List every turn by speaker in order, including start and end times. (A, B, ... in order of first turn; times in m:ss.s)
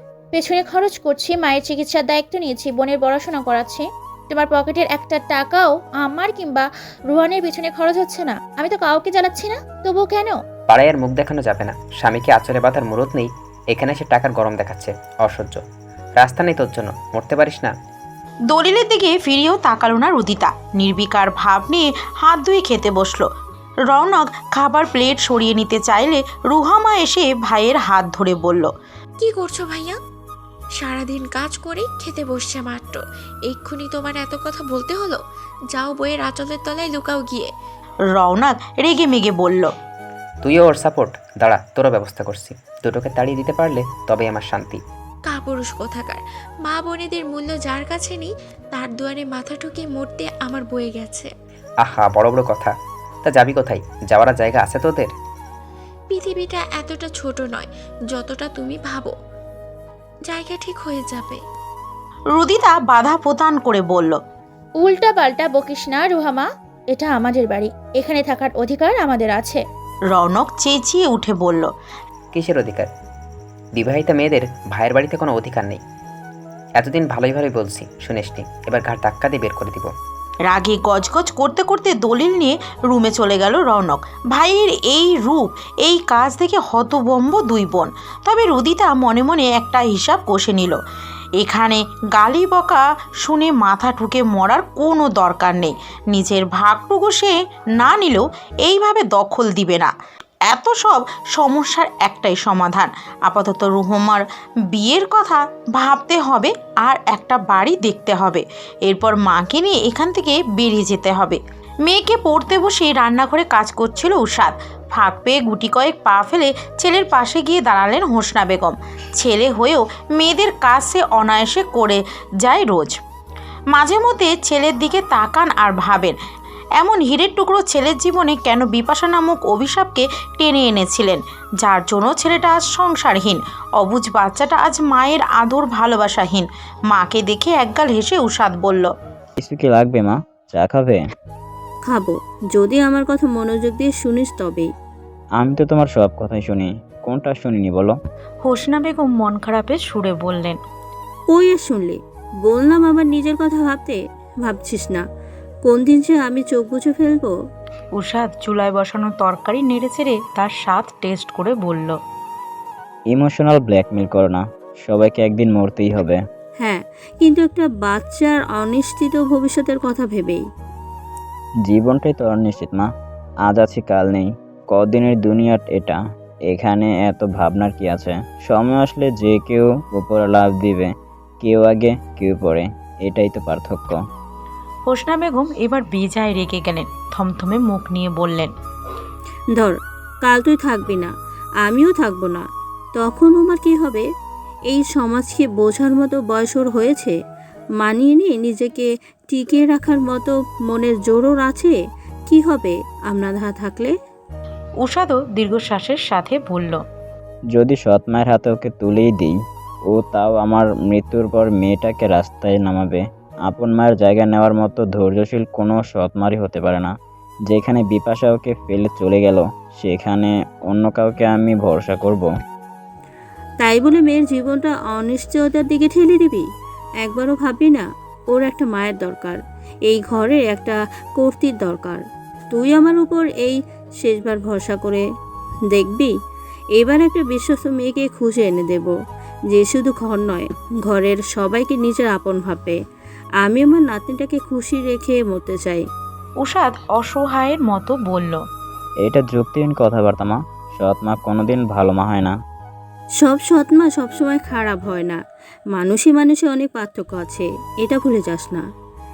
0:00.3-0:10.4 A
0:10.7-0:15.6 B
0:16.2-0:17.7 B
0:18.5-0:23.3 C
0:23.9-0:28.7 C
0:29.2-0:30.0 D
0:30.8-0:37.5 D
0:38.1-0:39.7 C
0:40.4-0:44.8 B
0:45.3-0:51.3 D
0:51.8-0:55.1 B
0:56.1-0:59.1 D
1:00.3-1:01.4 D
1:02.4-1:04.2 C
1:04.8-1:09.6 A
1:10.1-1:11.7 C
1:12.3-1:12.9 B
1:13.8-1:15.8 B
1:16.8-1:19.9 B
1:20.5-1:30.8 C
1:31.4-1:39.9 C
1:40.5-2:03.0 C
2:03.7-2:06.2 C
2:06.8-2:18.9 C
2:19.4-2:21.0 E
2:21.9-2:24.7 F
2:25.4-2:28.0 E
2:28.4-2:30.6 C
2:31.3-2:35.0 F
2:35.6-2:37.3 F
2:37.9-2:42.0 C
2:43.1-2:46.2 E
2:46.6-2:50.4 F
2:51.6-2:52.9 E
2:53.4-3:04.0 E
3:04.9-3:08.5 C
3:09.6-3:11.1 F
3:11.6-3:12.4 F
3:13.0-3:14.0 F
3:14.7-3:17.2 F
3:17.8-3:21.8 F
3:22.3-3:23.9 F
3:24.8-3:26.8 C
3:27.5-3:29.4 E
3:29.9-3:36.9 E
3:37.5-3:42.3 E
3:43.6-3:46.4 F
3:47.0-3:52.0 F
3:52.5-3:55.0 F
3:55.7-3:56.1 F
3:56.8-3:58.9 F
3:59.5-4:02.8 F
4:03.4-4:05.8 F
4:06.4-4:08.4 C
4:09.0-4:12.3 E
4:13.2-4:15.2 F
4:15.7-4:18.6 F